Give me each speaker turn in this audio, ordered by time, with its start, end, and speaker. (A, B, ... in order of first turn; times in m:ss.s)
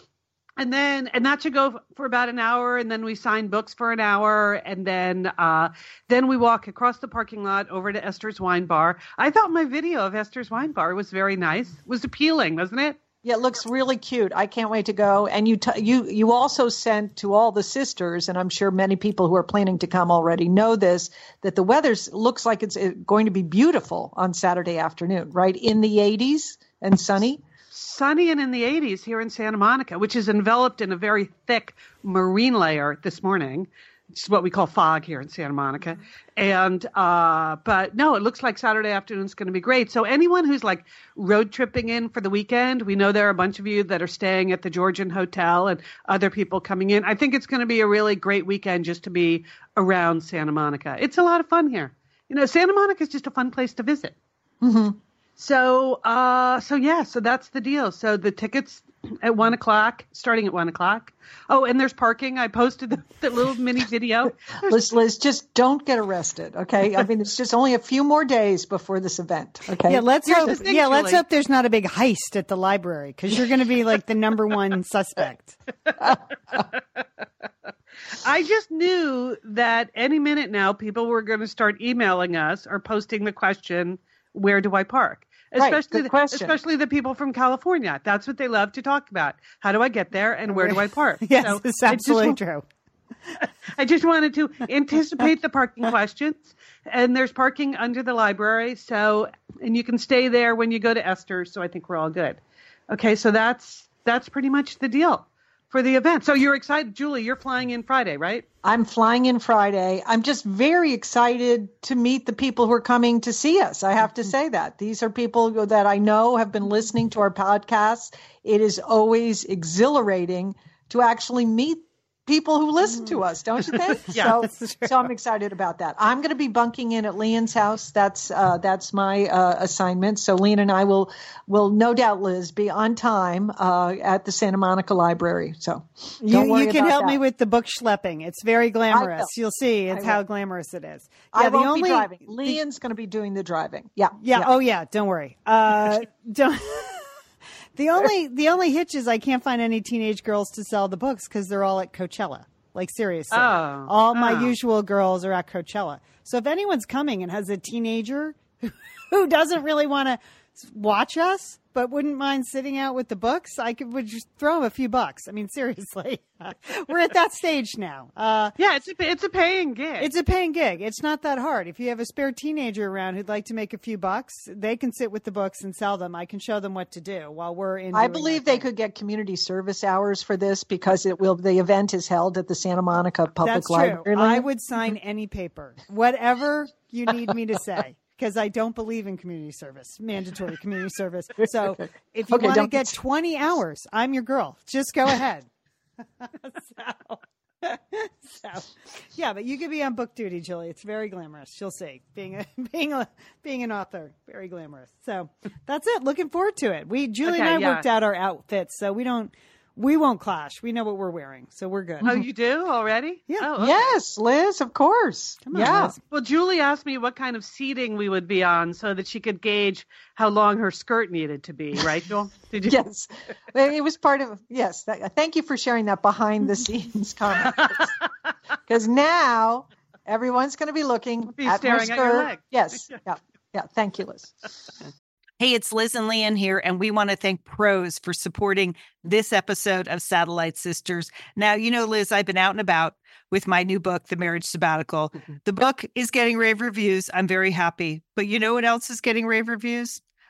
0:00.6-0:13.0 A
0:13.2-0:27.4 B
0:27.7-0:54.1 A
0:54.6-0:55.0 B
0:55.4-1:04.8 A
1:04.6-1:10.1 B
1:09.8-1:15.6 C
1:10.3-1:11.2 A
1:16.0-1:16.6 B
1:18.2-1:32.4 A
1:25.6-1:26.6 B
1:30.5-1:32.6 C
1:33.7-1:48.4 A
1:48.6-2:17.2 B
2:04.1-2:04.9 C
2:16.2-2:22.6 C
2:18.9-2:19.3 B
2:19.9-2:20.2 B
2:21.3-2:24.5 B
2:24.2-2:27.1 C
2:27.8-2:48.6 C
2:33.3-2:34.5 A
2:48.6-2:50.1 A
2:50.0-2:58.7 C
2:57.9-3:04.5 B
3:03.4-3:15.5 C
3:12.3-3:12.9 B
3:16.2-3:32.1 C
3:27.2-3:27.8 A
3:32.0-3:34.0 A
3:33.6-3:35.9 B
3:35.5-3:36.0 C
3:36.1-3:42.8 A
3:42.6-3:47.9 B
3:48.7-3:54.4 B
3:51.4-3:52.5 A
3:55.4-4:10.0 D